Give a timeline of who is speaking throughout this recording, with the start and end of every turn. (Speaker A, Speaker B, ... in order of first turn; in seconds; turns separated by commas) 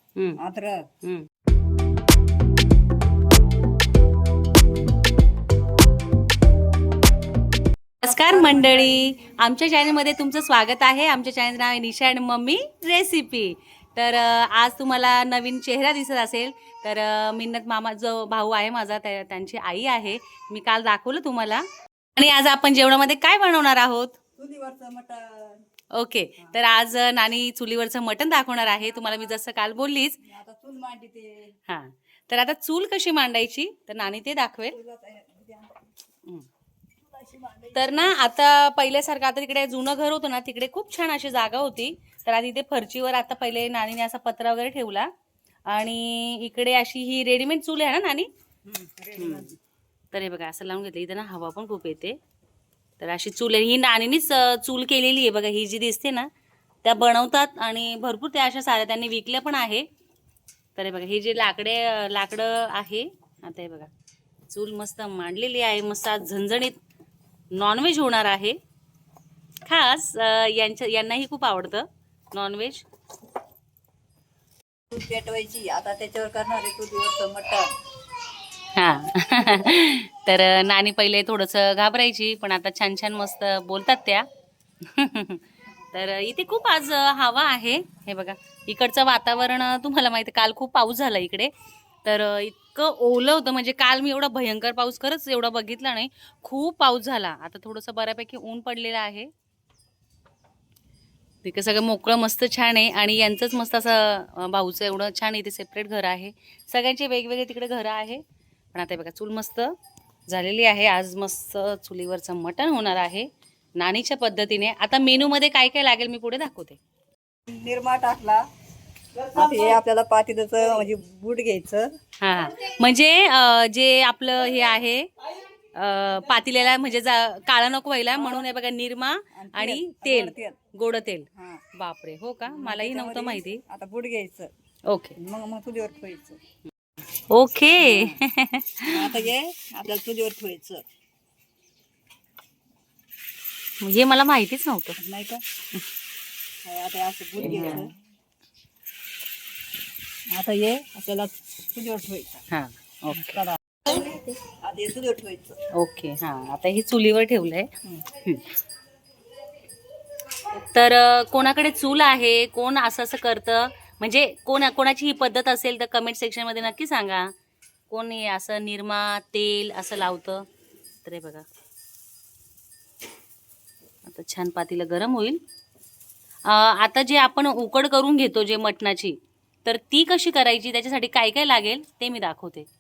Speaker A: 0.4-0.9, Speaker B: 8.0-24.2, Speaker A: 8.1-9.1, Speaker A: 24.4-25.6, Speaker B: 25.9-30.2, Speaker A: 28.7-29.2, Speaker A: 30.2-31.6, Speaker B: 31.7-34.8, Speaker A: 34.7-35.9, Speaker A: 37.0-38.2, Speaker B: 37.8-45.1, Speaker B: 45.7-48.3, Speaker A: 48.6-49.5, Speaker B: 49.2-49.5, Speaker B: 50.1-52.2, Speaker B: 53.0-56.3, Speaker B: 56.8-59.9, Speaker B: 60.8-63.9, Speaker B: 64.5-66.8, Speaker B: 67.5-68.6, Speaker B: 69.7-72.8, Speaker A: 74.9-77.7, Speaker B: 78.7-84.3, Speaker B: 84.8-91.5, Speaker B: 92.0-99.3, Speaker B: 101.4-108.2, Speaker B: 108.7-109.8, Speaker B: 110.3-116.8, Speaker A: 117.5-118.5, Speaker A: 119.3-122.0, Speaker B: 122.2-125.1, Speaker B: 125.7-133.6, Speaker A: 128.1-128.5, Speaker A: 129.3-130.6, Speaker A: 131.3-131.6, Speaker A: 132.5-134.5, Speaker B: 134.9-135.1, Speaker A: 135.2-136.4, Speaker B: 137.3-139.2, Speaker A: 137.8-138.2, Speaker A: 138.9-140.8, Speaker B: 143.8-145.0, Speaker A: 145.0-145.4, Speaker A: 146.7-147.9, Speaker B: 147.4-147.9, Speaker A: 150.3-152.5, Speaker B: 152.5-153.4, Speaker A: 153.1-155.6, Speaker B: 155.7-157.7, Speaker B: 158.2-158.6, Speaker B: 160.6-167.3, Speaker B: 167.9-170.5, Speaker B: 171.0-171.4, Speaker B: 174.1-175.4, Speaker B: 176.4-182.7